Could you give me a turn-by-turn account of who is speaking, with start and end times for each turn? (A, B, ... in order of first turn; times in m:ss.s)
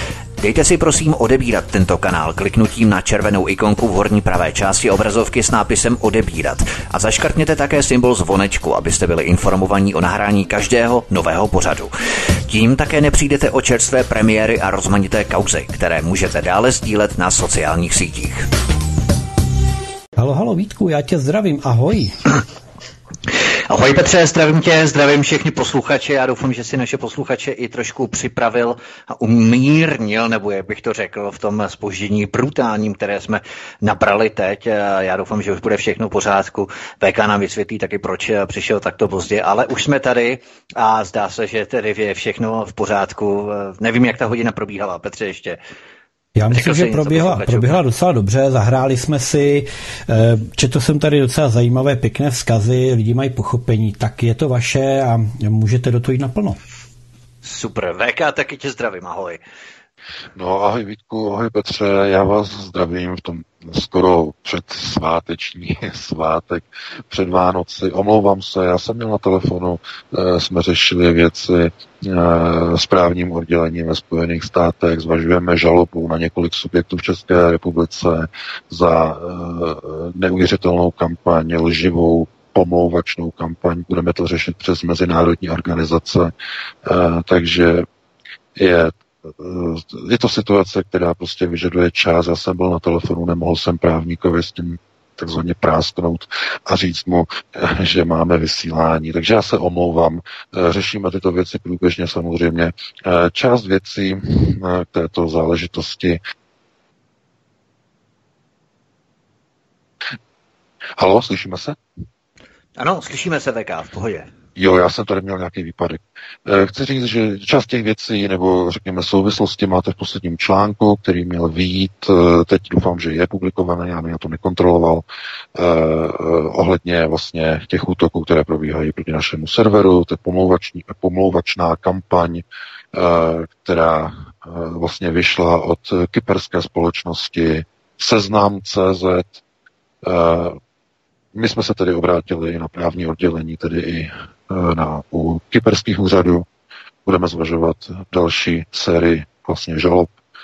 0:00.4-0:11.9 A
0:12.5-0:18.5 A
0:20.2-0:22.2 B
0:23.7-0:45.6 A
0:46.3-0:56.6 B
0:46.5-0:47.8 A
0:57.4-0:59.4 A
1:00.4-1:26.3 C
1:26.8-1:27.8 C
1:28.5-1:46.2 C
1:51.0-1:51.8 C
1:52.8-1:54.3 A
1:54.6-2:19.4 C
2:20.0-2:20.6 C
2:21.3-2:26.5 C
2:27.0-2:30.1 C